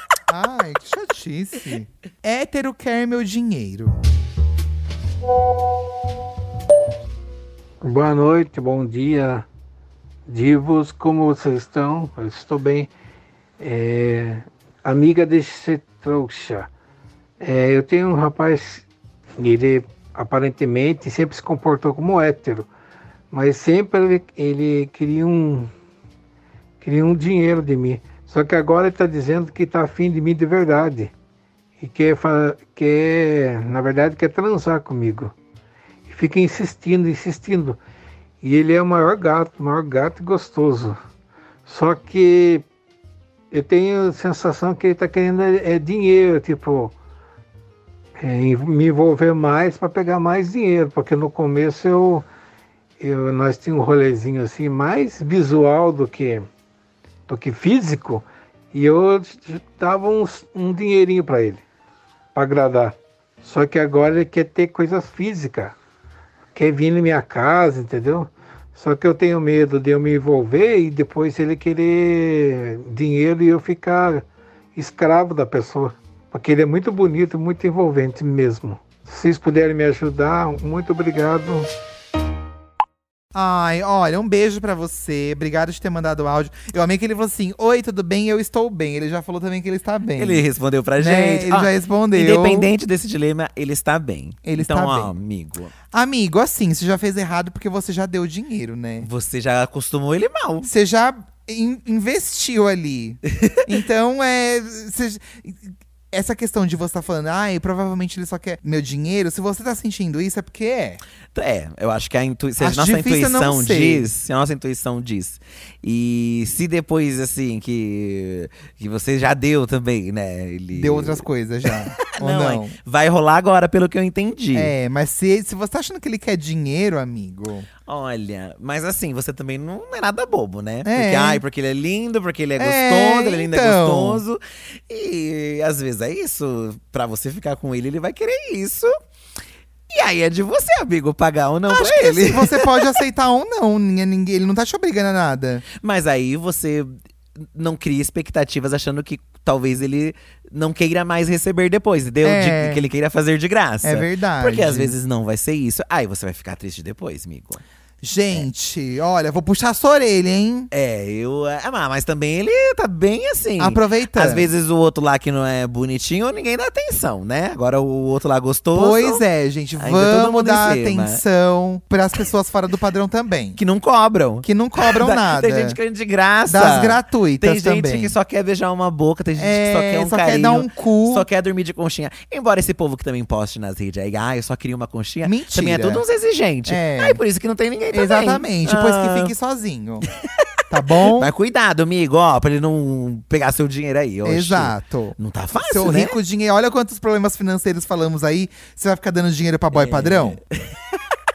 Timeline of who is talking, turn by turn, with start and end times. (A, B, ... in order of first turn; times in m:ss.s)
0:00.3-0:04.0 A
0:07.8-0:09.5 B
0:10.3-0:12.9 B
0:13.6-0:16.7 B
0:17.4-0:18.9 B
0:19.4-0:22.7 B
0:23.3-0:25.7 B
0:26.8-0:31.1 B
0:31.8-0:35.3 B
0:36.1-0:37.8 B
0:38.4-0:41.0 B
0:41.7-0:42.7 B
0:43.5-0:47.0 B
0:48.2-0:52.2 B
0:53.0-0:56.5 B
0:57.3-1:01.6 B
1:02.4-1:05.8 B
1:06.6-1:21.7 B
1:23.3-1:30.4 A
1:30.2-1:35.7 C
1:31.0-1:32.7 A
1:34.4-1:35.1 A
1:35.9-1:39.1 A
1:39.0-1:40.7 C
1:40.6-1:51.0 A
1:43.3-1:43.6 C
1:51.3-2:04.7 C
1:52.6-1:54.1 A
2:00.7-2:02.8 A
2:04.5-2:07.7 A
2:07.9-2:18.9 C
2:10.8-2:11.4 A
2:12.6-2:14.2 A
2:19.9-2:23.0 C
2:21.7-2:25.6 A
2:25.7-2:37.6 C
2:32.2-2:32.9 A
2:33.8-2:35.0 A
2:38.0-2:40.7 A
2:40.7-2:49.2 C
2:43.6-2:44.5 A
2:48.7-2:53.6 A
2:49.8-2:51.2 C
2:53.6-3:09.3 C
2:54.4-2:55.8 A
2:56.5-2:58.2 A
2:59.4-3:01.3 A
3:05.2-3:06.0 A
3:06.7-3:07.2 A
3:07.9-3:10.1 A
3:10.0-3:10.5 C
3:10.7-3:11.3 A
3:11.0-3:16.2 C
3:14.2-3:20.4 A
3:19.7-3:21.1 C